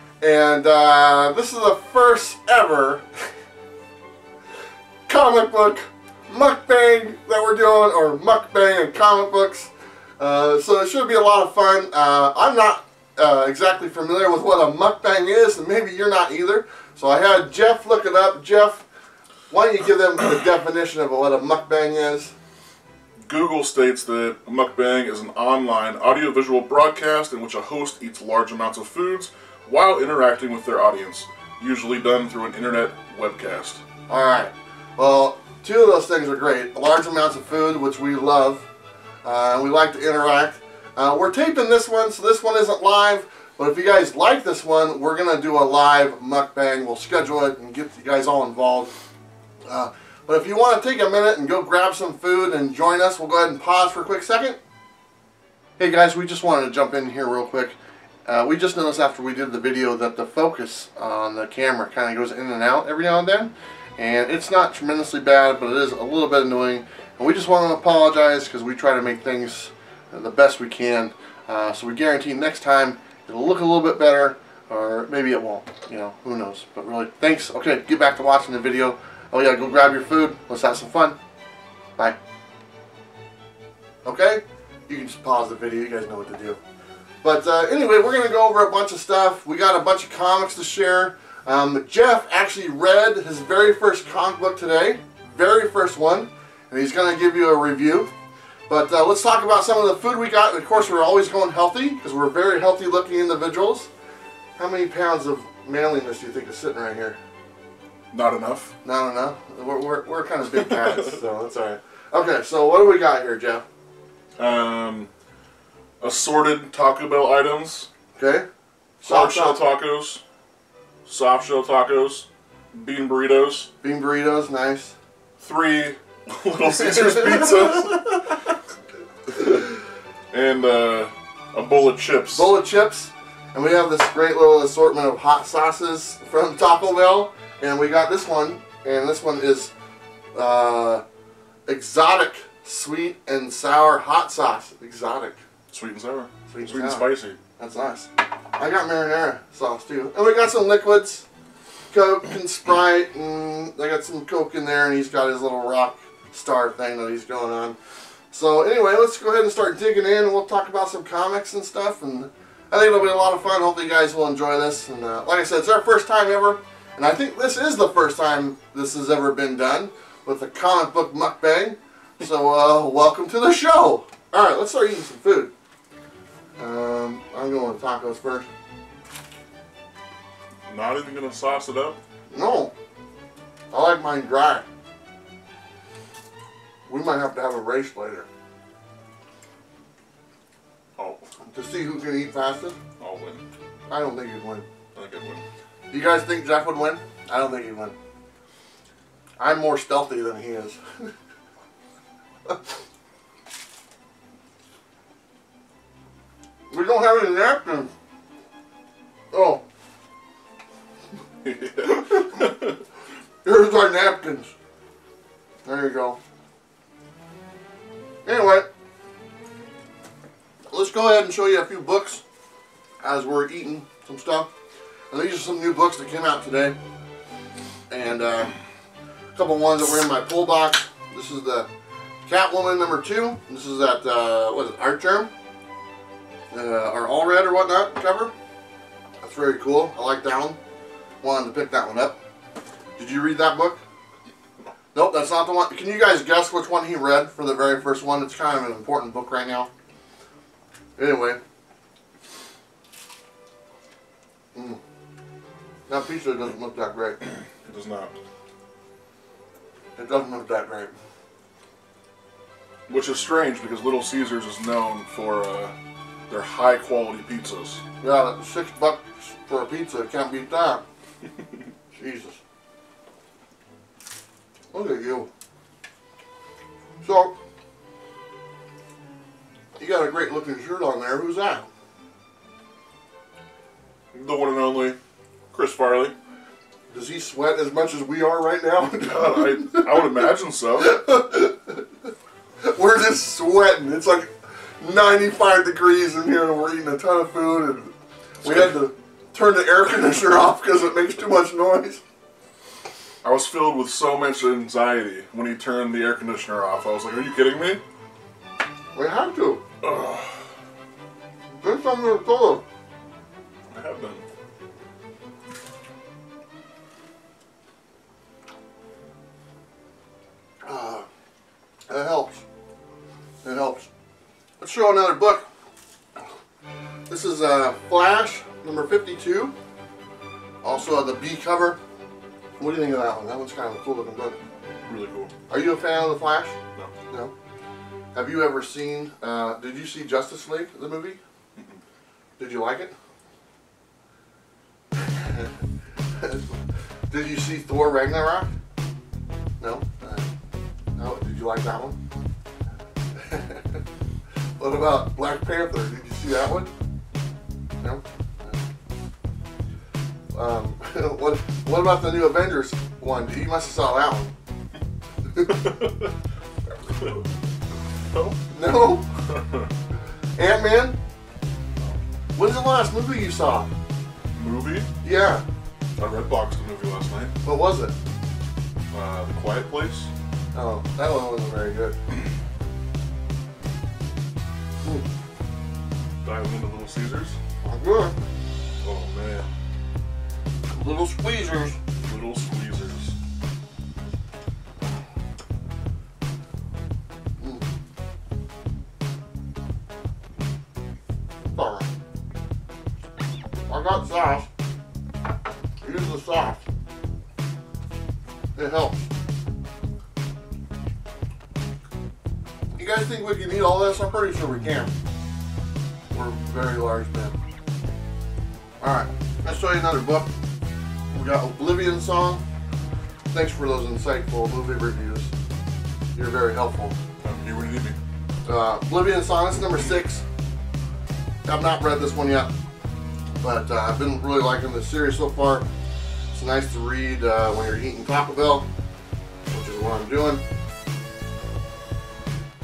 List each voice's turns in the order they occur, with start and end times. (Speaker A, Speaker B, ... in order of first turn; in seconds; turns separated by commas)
Speaker A: 0.2-3.0, Speaker A: 5.1-18.8, Speaker A: 19.5-22.3, Speaker B: 23.3-33.8, Speaker A: 34.1-38.7, Speaker A: 39.2-48.9, Speaker A: 49.7-54.6, Speaker A: 55.8-57.8, Speaker A: 58.3-81.2, Speaker A: 84.0-86.6, Speaker A: 87.2-98.1, Speaker A: 98.7-103.9, Speaker A: 104.6-107.2, Speaker B: 108.1-108.7, Speaker A: 108.8-113.6, Speaker B: 110.6-111.2, Speaker B: 114.4-115.1, Speaker B: 116.0-117.9, Speaker A: 118.2-118.5, Speaker A: 119.0-119.6, Speaker B: 119.0-120.2, Speaker B: 121.1-123.7, Speaker A: 123.8-125.0, Speaker B: 125.4-128.4, Speaker A: 126.8-127.9, Speaker B: 130.3-132.5, Speaker A: 132.3-139.7, Speaker A: 140.3-141.0, Speaker A: 141.7-145.4, Speaker B: 145.7-147.4, Speaker A: 146.5-151.3, Speaker A: 151.9-157.8, Speaker A: 158.3-175.5, Speaker A: 176.6-178.5, Speaker B: 180.7-182.0, Speaker A: 182.3-182.7, Speaker A: 183.7-184.6, Speaker A: 186.9-188.3, Speaker B: 191.0-191.2, Speaker A: 191.5-192.8, Speaker B: 193.0-193.4, Speaker A: 193.9-194.7, Speaker B: 194.9-195.4, Speaker A: 195.9-197.9, Speaker A: 199.4-201.1, Speaker A: 206.7-207.9, Speaker A: 209.3-209.6, Speaker B: 211.4-212.8, Speaker A: 213.4-214.5, Speaker A: 215.7-216.2, Speaker A: 218.2-218.7, Speaker A: 220.7-222.2, Speaker A: 223.0-224.5, Speaker A: 225.1-226.8, Speaker A: 227.9-228.5, Speaker A: 229.3-231.7, Speaker A: 232.3-235.3, Speaker A: 236.5-238.3, Speaker A: 239.2-240.6, Speaker A: 241.2-242.2, Speaker A: 243.0-243.8, Speaker A: 244.9-249.7, Speaker A: 251.0-251.4, Speaker A: 254.6-254.8, Speaker A: 255.9-257.2, Speaker B: 257.6-258.1, Speaker A: 260.0-260.9, Speaker B: 262.9-265.7, Speaker B: 266.3-267.8, Speaker A: 268.0-270.8, Speaker A: 271.9-272.4, Speaker A: 274.7-275.3, Speaker A: 277.0-277.3, Speaker A: 279.8-281.7, Speaker B: 284.1-285.0, Speaker B: 285.5-286.1, Speaker A: 286.9-291.9, Speaker B: 288.8-291.0, Speaker A: 292.6-297.9, Speaker B: 298.4-298.8, Speaker A: 298.4-302.0, Speaker B: 303.2-307.8, Speaker A: 308.9-309.6, Speaker B: 309.8-310.4, Speaker A: 311.6-312.6, Speaker B: 313.7-314.2, Speaker A: 320.6-321.1, Speaker A: 321.9-322.4, Speaker A: 323.4-323.9, Speaker A: 324.6-325.5, Speaker A: 327.1-329.5, Speaker A: 330.6-331.8, Speaker A: 332.6-334.4, Speaker B: 334.9-335.3, Speaker A: 335.5-336.6, Speaker A: 338.1-341.2, Speaker B: 341.6-341.8, Speaker A: 342.4-342.9, Speaker A: 345.0-345.5, Speaker A: 346.2-346.5, Speaker A: 347.1-348.5, Speaker A: 349.6-350.3, Speaker A: 351.0-352.0, Speaker A: 353.1-353.8, Speaker A: 354.6-356.7, Speaker A: 357.8-358.6, Speaker A: 360.3-364.3, Speaker A: 365.4-365.8, Speaker B: 368.1-368.4, Speaker A: 368.5-369.1, Speaker B: 369.3-369.6, Speaker A: 370.4-371.0, Speaker A: 372.4-373.7, Speaker B: 374.4-374.9, Speaker A: 375.0-375.4, Speaker B: 376.0-377.3, Speaker A: 377.4-377.9, Speaker B: 378.9-380.1, Speaker A: 380.5-381.9, Speaker B: 386.2-387.4, Speaker A: 387.6-388.2, Speaker B: 388.8-389.5, Speaker A: 390.7-391.8, Speaker B: 392.0-393.1, Speaker A: 401.5-401.9, Speaker A: 403.7-404.5, Speaker A: 405.8-406.6, Speaker A: 408.6-409.1, Speaker A: 412.8-414.9, Speaker A: 416.1-417.4, Speaker A: 418.8-420.3, Speaker A: 421.1-422.4, Speaker A: 423.3-425.3, Speaker A: 426.1-426.9, Speaker B: 427.2-428.0, Speaker A: 428.5-430.2, Speaker A: 431.4-432.5, Speaker A: 433.4-435.7, Speaker A: 436.3-438.7, Speaker A: 439.5-440.4